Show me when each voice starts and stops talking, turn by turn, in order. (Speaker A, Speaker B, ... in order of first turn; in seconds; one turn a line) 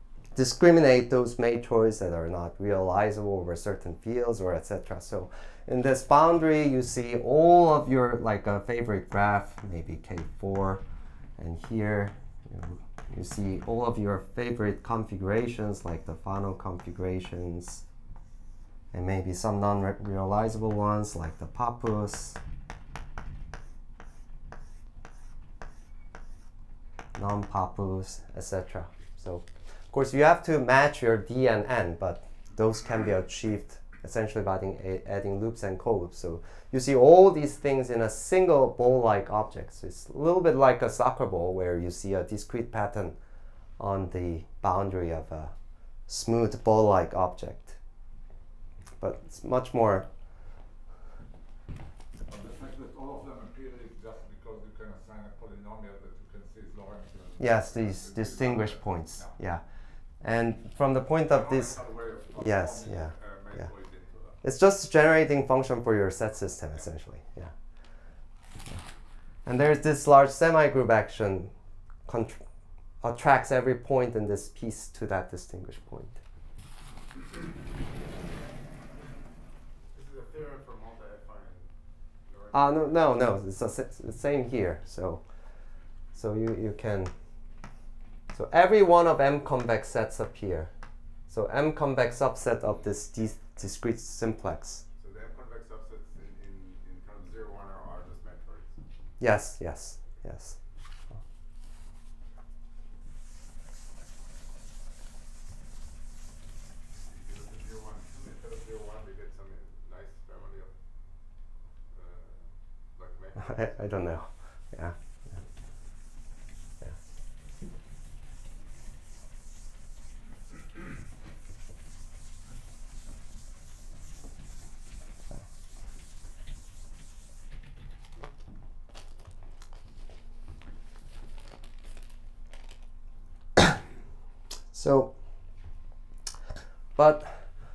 Speaker A: 0.3-10.8
Speaker A: 11.4-17.8
Speaker A: 18.9-22.4
Speaker A: 27.2-43.1
Speaker A: 43.8-45.5
Speaker A: 46.1-47.8
Speaker A: 49.0-50.1
Speaker B: 52.3-59.3
Speaker A: 57.4-59.6
Speaker A: 60.2-61.8
Speaker B: 61.3-64.4
Speaker A: 62.4-63.7
Speaker A: 64.4-67.5
Speaker A: 69.5-71.5
Speaker A: 72.1-72.4
Speaker A: 73.0-76.2
Speaker C: 79.9-81.7
Speaker C: 82.3-83.1
Speaker A: 82.5-85.2
Speaker A: 86.2-87.1
Speaker A: 88.3-90.7
Speaker A: 91.3-94.8
Speaker C: 95.0-98.8
Speaker A: 99.2-100.6
Speaker C: 107.0-110.7
Speaker C: 111.9-113.8
Speaker A: 113.4-115.0
Speaker A: 134.7-135.1
Speaker A: 137.0-137.4